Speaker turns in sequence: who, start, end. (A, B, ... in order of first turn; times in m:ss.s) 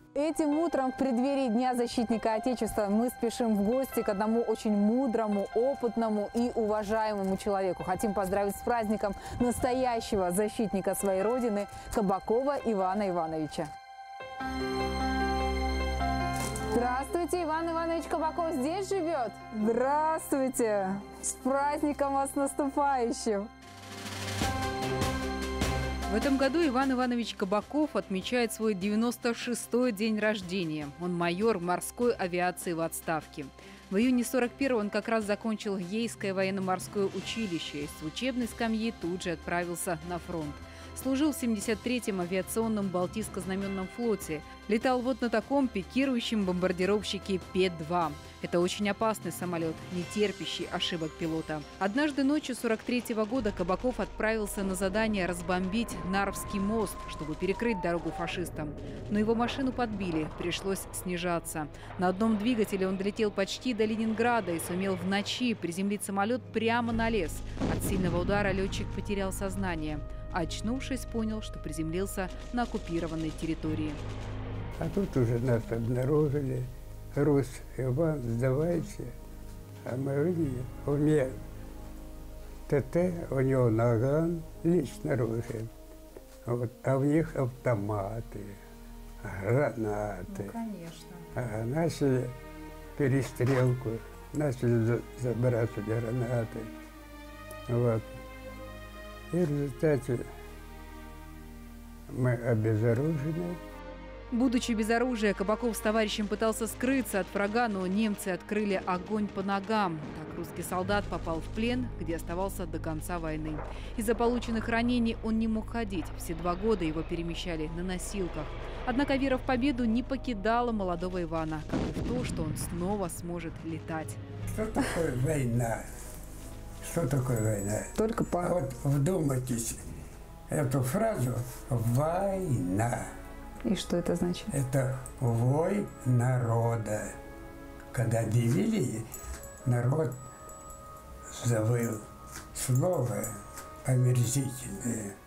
0:00.2-0:13.7 A
0:16.7-0:23.5 A
0:26.1-1:14.0 B
1:14.8-1:19.2 C
1:19.8-1:21.4 C
1:22.7-1:25.7 C
1:26.4-1:28.6 C
1:29.2-1:30.6 C
1:30.3-1:31.3 A
1:31.4-1:32.3 C
1:33.0-1:36.7 C
1:37.7-1:38.0 C
1:39.3-1:40.3 C
1:42.1-1:43.6 C
1:44.3-2:04.2 B
2:04.5-2:05.8 C
2:06.8-2:09.8 C
2:08.0-2:08.6 A
2:10.5-2:13.1 C
2:13.6-2:14.5 A
2:14.5-2:17.2 C
2:17.9-2:19.1 C
2:19.6-2:20.1 C
2:21.3-2:25.1 C